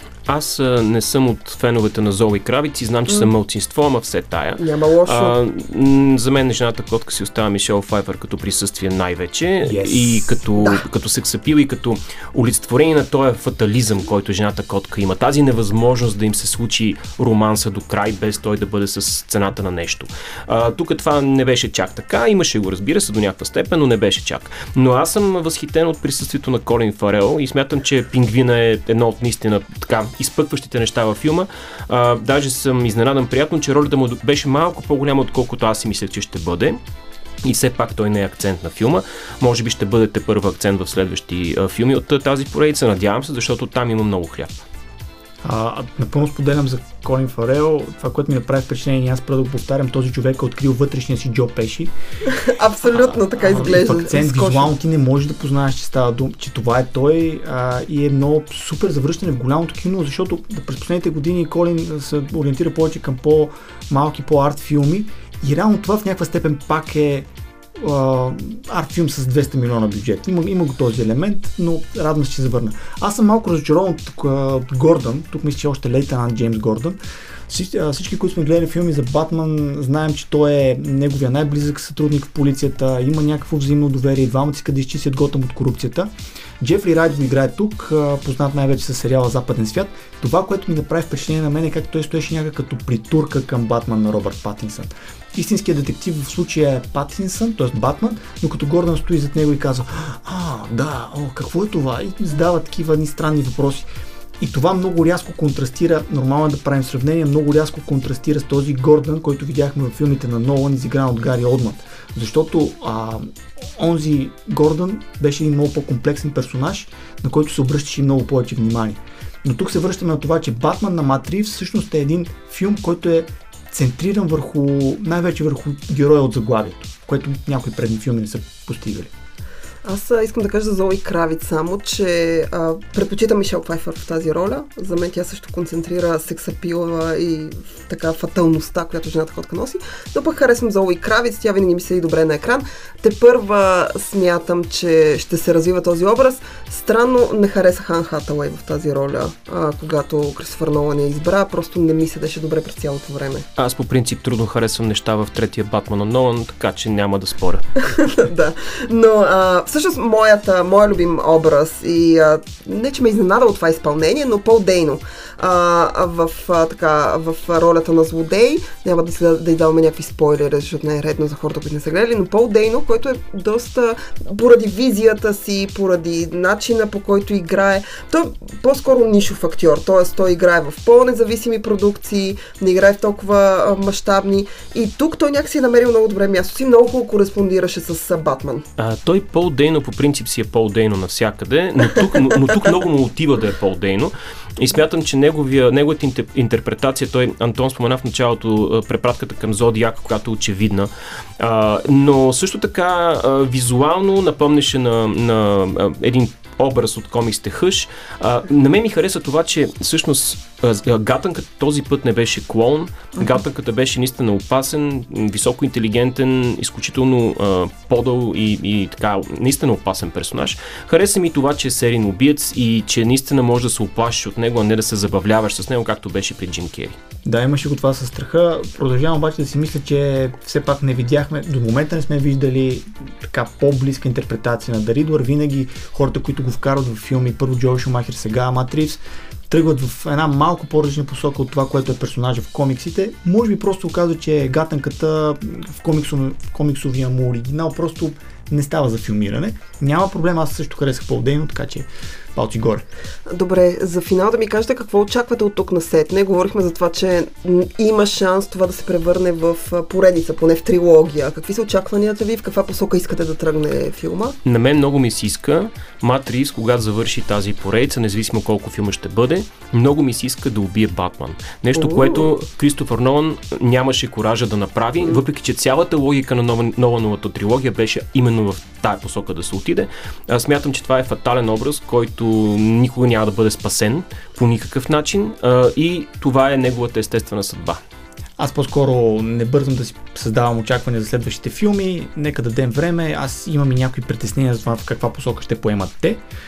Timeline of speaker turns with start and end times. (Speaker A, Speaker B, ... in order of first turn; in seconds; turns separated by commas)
Speaker A: 0.2-36.8, Speaker B: 4.6-5.3, Speaker C: 9.6-10.4, Speaker B: 10.6-10.8, Speaker A: 37.4-44.6, Speaker C: 45.4-51.9, Speaker B: 52.3-54.7, Speaker C: 52.9-103.9, Speaker C: 104.4-129.1, Speaker B: 129.8-153.4, Speaker A: 153.6-157.9, Speaker B: 157.9-188.7, Speaker A: 188.8-227.0, Speaker C: 227.2-252.8, Speaker B: 253.3-264.4, Speaker A: 264.4-287.8, Speaker B: 271.7-272.3, Speaker C: 288.4-296.2